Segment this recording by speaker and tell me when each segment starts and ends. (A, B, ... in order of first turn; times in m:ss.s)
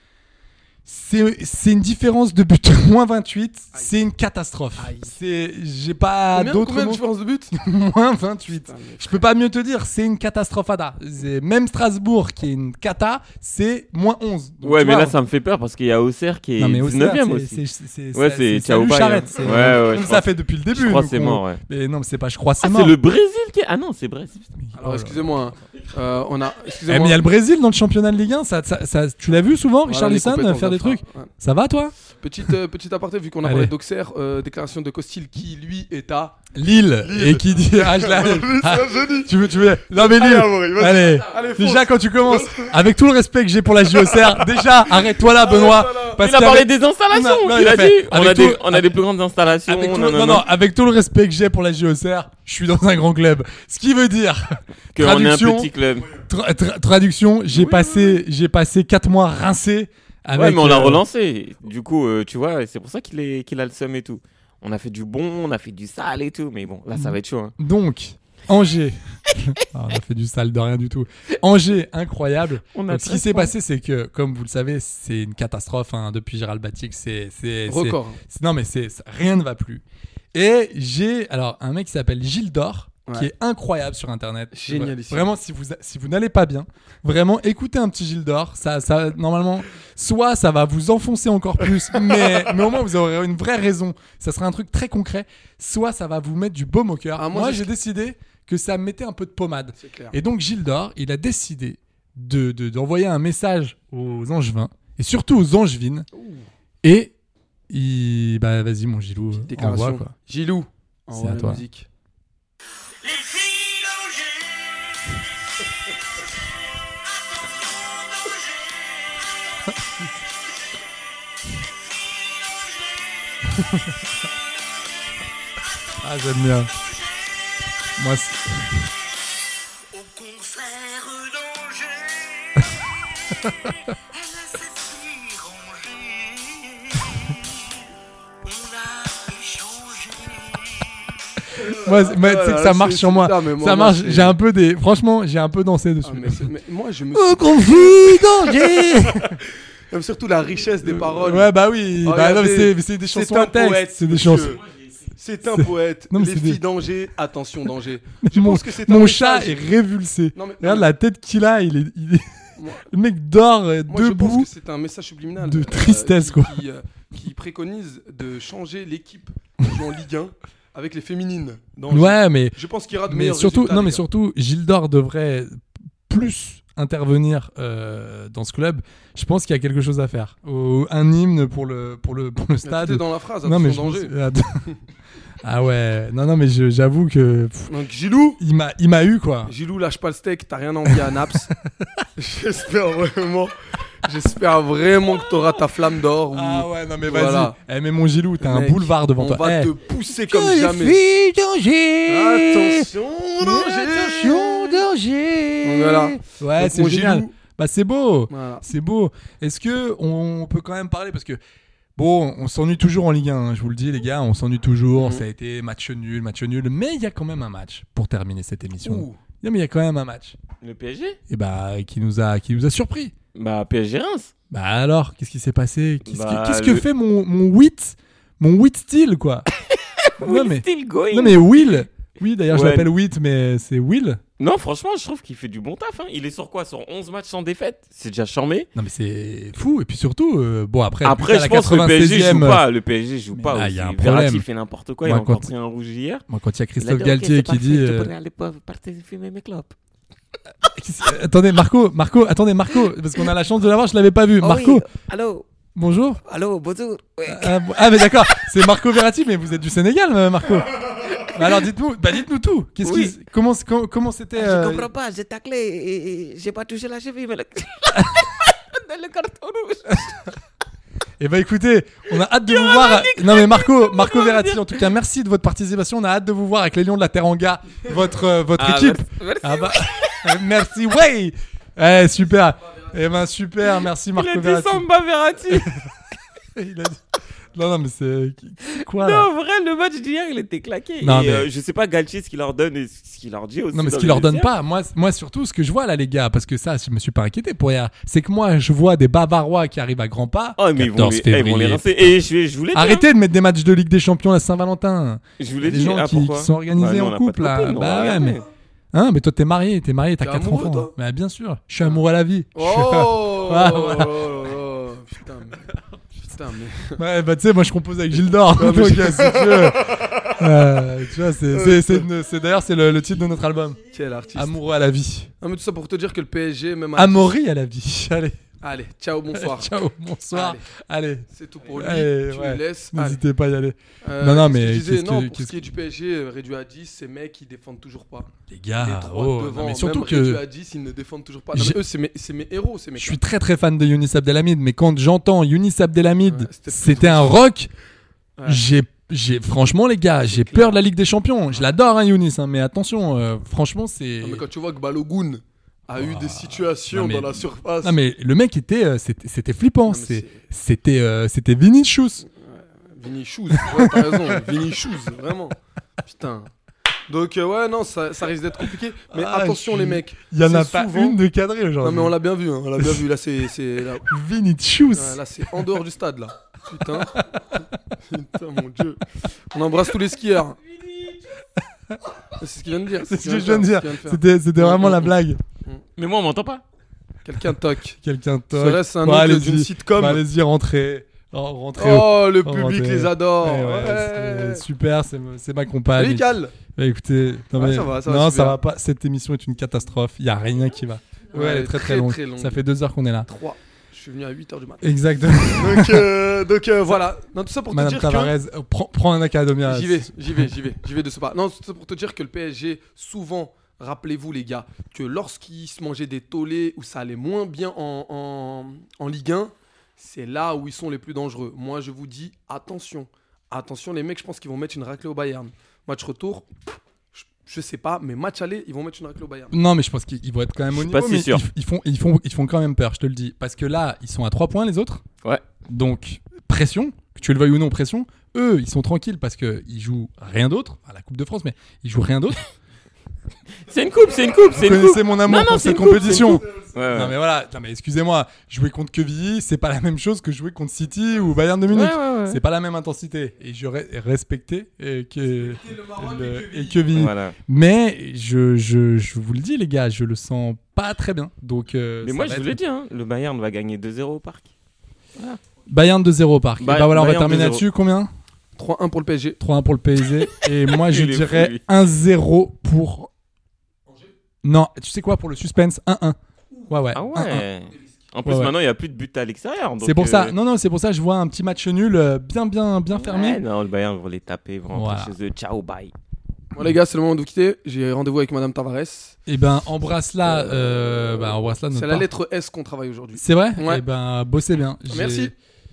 0:00.8-0:15.2 A
0:04.8-0:05.1 B
0:06.3-0:07.5 B
0:08.5-0:09.2 B
0:14.6-0:17.6 C
0:16.6-0:23.0 A
0:18.2-0:21.6 C
0:22.6-0:24.4 C
0:24.6-0:25.4 A
0:24.8-0:27.2 B
0:26.9-0:31.9 A
0:29.9-0:31.3 B
0:32.1-0:36.5 B
0:33.4-0:33.7 A
0:36.5-0:49.0 A
0:37.0-0:42.8 B
0:44.1-0:46.2 B
0:46.2-0:50.5 C
0:49.7-1:01.0 A
0:55.0-0:56.1 C
0:57.5-0:58.2 C
1:00.3-1:07.5 C
1:07.0-1:46.1 A
1:12.8-1:13.5 C
1:17.7-1:18.2 B
1:24.5-1:25.3 B
1:37.2-1:37.7 B
1:39.8-1:40.2 B
1:46.1-1:46.5 B
1:46.8-1:47.1 A
1:47.7-1:50.1 A
1:49.4-1:51.9 B
1:51.1-1:51.6 A
1:53.3-1:54.1 D
2:06.0-2:06.7 A
2:08.0-2:08.9 A
2:10.0-2:12.0 D
2:21.6-2:26.5 A
2:21.6-2:24.4 B
2:26.0-2:28.9 B
2:27.1-2:29.4 A
2:29.9-2:34.6 B
2:30.8-2:34.6 A
2:35.2-2:39.6 B
2:35.5-2:36.6 A
2:38.2-2:42.3 A
2:40.4-2:40.9 B
2:42.6-2:42.8 B
2:42.9-2:44.5 A
2:43.9-2:54.0 B
2:45.4-2:46.6 A
2:51.9-3:04.6 A
3:02.6-3:04.2 B
3:05.4-3:07.7 A
3:07.7-3:08.4 B
3:08.4-3:09.5 A
3:09.5-3:11.5 B
3:12.2-3:17.6 B
3:16.3-3:31.4 A
3:18.4-3:21.0 B
3:22.1-3:24.8 B
3:25.6-3:27.3 B
3:28.3-3:28.6 B
3:32.0-3:40.4 A
3:35.0-3:35.2 B
3:38.8-3:39.2 B
3:40.6-3:41.2 C
3:41.3-3:43.1 A
3:43.4-3:44.3 C
3:44.5-3:49.5 A
3:46.1-3:46.8 C
3:49.7-3:51.8 C
3:50.2-3:54.2 A
3:52.5-3:52.9 C
3:54.4-3:58.7 C
3:58.8-4:02.6 A
4:01.0-4:06.2 C
4:03.3-4:04.4 A
4:05.0-4:05.5 A
4:06.3-4:08.1 A
4:06.8-4:09.7 C
4:10.6-4:14.8 A
4:14.4-4:15.4 C
4:15.8-4:16.2 A
4:16.3-4:17.2 D
4:17.0-4:17.4 C
4:17.3-4:24.9 A
4:21.2-4:21.4 C
4:22.8-4:23.1 C
4:24.4-4:27.3 D
4:27.8-4:28.3 C
4:28.9-4:30.0 C
4:31.2-4:44.8 A
4:32.6-4:34.7 C
4:38.6-4:40.0 C
4:44.2-4:45.8 C
4:45.5-4:45.8 A
4:46.6-4:47.0 A
4:47.5-4:49.3 A
4:48.7-4:54.5 C
4:51.0-4:51.5 A
4:53.7-5:02.2 A
5:00.6-5:03.1 C
5:02.7-5:08.4 A
5:05.4-5:08.5 C
5:08.9-5:14.3 A
5:10.2-5:10.9 B
5:12.6-5:15.7 B
5:16.2-5:17.0 B
5:17.0-5:23.8 A
5:18.5-5:20.0 B
5:21.5-5:22.1 B
5:23.9-5:24.5 B
5:24.3-5:25.3 A
5:25.4-5:27.3 B
5:27.0-5:28.4 A
5:28.6-5:29.7 B
5:29.3-5:35.7 A
5:30.3-5:30.7 B
5:31.3-5:33.2 B
5:34.0-5:43.2 B
5:38.5-5:40.4 A
5:43.0-5:47.7 A
5:46.2-5:47.4 B
5:48.5-5:54.4 A
5:50.3-5:50.8 B
5:54.2-5:58.0 B
5:56.0-6:02.2 A
5:59.9-6:00.4 B
6:02.2-6:06.5 B
6:03.6-6:04.4 A
6:07.1-6:11.2 B
6:09.1-6:12.2 A
6:11.8-6:14.1 B
6:12.8-6:13.0 A
6:14.0-6:15.2 A
6:14.9-6:20.6 B
6:17.0-6:17.4 A
6:22.4-6:25.8 B
6:23.0-6:25.4 A
6:26.0-6:26.6 C
6:27.2-6:28.0 B
6:28.0-6:43.3 A
6:28.5-6:30.2 B
6:31.8-6:34.6 B
6:35.9-6:36.5 B
6:37.6-6:38.6 B
6:41.3-6:42.6 B
6:43.2-6:48.4 B
6:44.8-6:46.1 A
6:47.7-6:50.5 A
6:49.7-7:06.5 B
7:07.1-7:09.5 B
7:09.5-7:15.0 A
7:10.7-7:11.4 C
7:15.7-7:22.4 A
7:23.7-7:27.2 C
7:24.6-7:42.6 A
7:31.7-7:32.4 C
7:35.7-7:36.9 B
7:36.9-7:37.4 C
7:42.0-7:44.5 C
7:45.7-7:48.1 A
7:46.6-7:47.6 C
7:48.6-7:49.4 B
7:49.4-7:53.1 A
7:50.7-7:51.6 C
7:54.4-7:56.2 A
7:56.7-7:57.5 A
7:56.9-8:00.3 C
7:58.3-7:58.5 A
7:59.8-8:03.4 A
8:02.9-8:05.9 C
8:04.7-8:05.1 A
8:06.6-8:09.2 B
8:09.3-8:12.1 A
8:11.7-8:13.8 B
8:13.2-8:15.3 A
8:14.9-8:15.3 B